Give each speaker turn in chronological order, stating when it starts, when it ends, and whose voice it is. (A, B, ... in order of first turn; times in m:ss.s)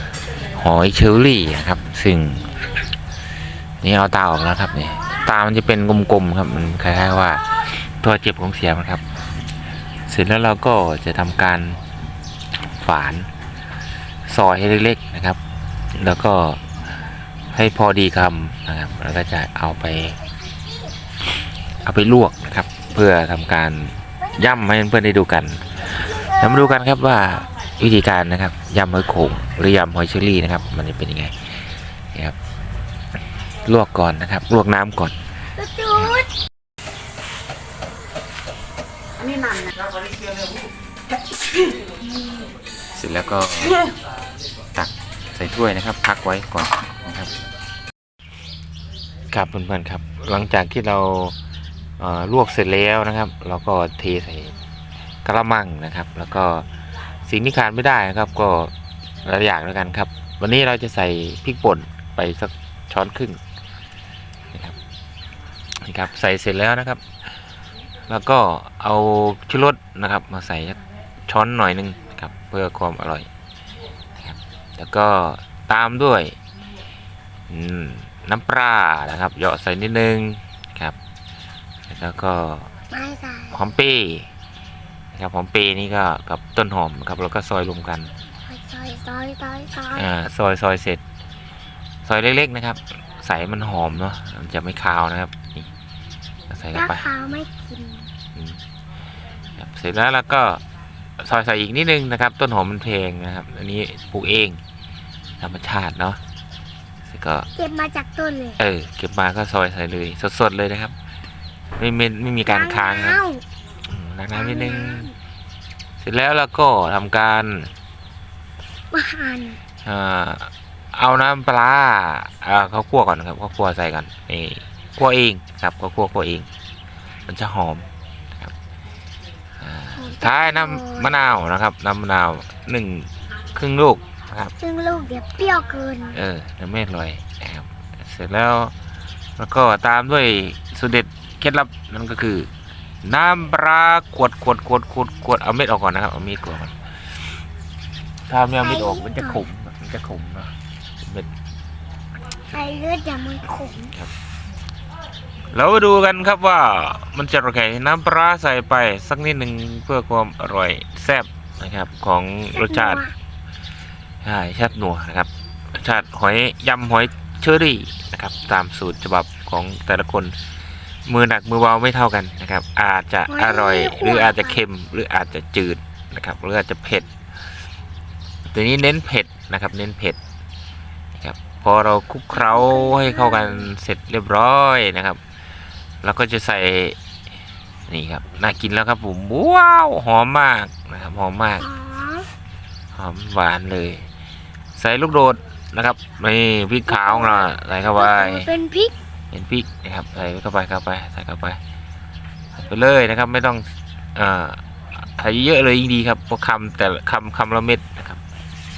0:00.5-0:02.5 A
0:03.8-0:09.0 A
0:10.1-0:11.8 A
0:12.7-0:13.3 A
0:14.3-0:15.4 A
0:16.0-0:16.6 A
0:17.5-0:20.2 A
0:21.8-0:31.6 A
0:26.1-0:26.7 B
0:33.6-0:35.2 A
0:35.6-0:36.3 B
0:35.9-0:36.2 A
0:43.0-0:43.8 A
0:44.8-0:47.3 A
0:49.3-0:51.3 A
0:52.0-0:54.5 A
0:55.2-0:56.7 A
0:57.3-0:58.7 A
0:59.2-1:03.4 A
1:05.8-1:07.0 A
1:08.1-1:13.3 A
1:14.2-1:16.4 A
1:17.5-1:21.0 A
1:21.9-1:22.7 A
1:22.9-1:23.6 B
1:23.5-1:24.3 A
1:25.1-1:28.1 A
1:28.4-1:30.1 B
1:30.0-1:31.0 A
1:32.1-1:35.7 A
1:36.5-1:37.1 A
1:36.7-1:38.1 B
1:38.3-1:38.6 A
1:39.6-1:40.6 A
1:41.2-1:44.6 A
1:45.4-1:46.2 A
1:47.0-1:47.5 A
1:47.6-1:48.6 B
1:48.6-1:51.0 A
1:51.8-1:53.2 A
1:52.4-1:53.4 B
1:53.9-1:55.1 A
1:54.3-1:55.1 B
1:56.0-1:57.7 A
1:58.9-1:59.6 B
1:59.8-2:06.5 A
2:07.3-2:08.5 A
2:09.6-2:14.5 A
2:10.0-2:11.4 B
2:14.6-2:16.2 B
2:16.1-2:18.7 A
2:19.4-2:22.5 A
2:23.0-2:26.8 A
2:28.3-2:31.3 A
2:28.6-2:29.4 B
2:32.5-2:33.9 B
2:35.5-2:43.0 A
2:42.5-2:43.1 B
2:44.2-2:50.4 A
2:51.0-2:57.1 A
2:53.3-2:54.6 B
2:58.5-3:00.2 A
3:01.1-3:05.2 A
3:02.3-3:03.7 B
3:06.0-3:07.0 A
3:07.9-3:11.7 A
3:11.6-3:12.3 B
3:12.9-3:14.1 A
3:14.8-3:18.5 A
3:16.9-3:18.9 B
3:19.3-3:21.6 A
3:22.6-3:28.2 A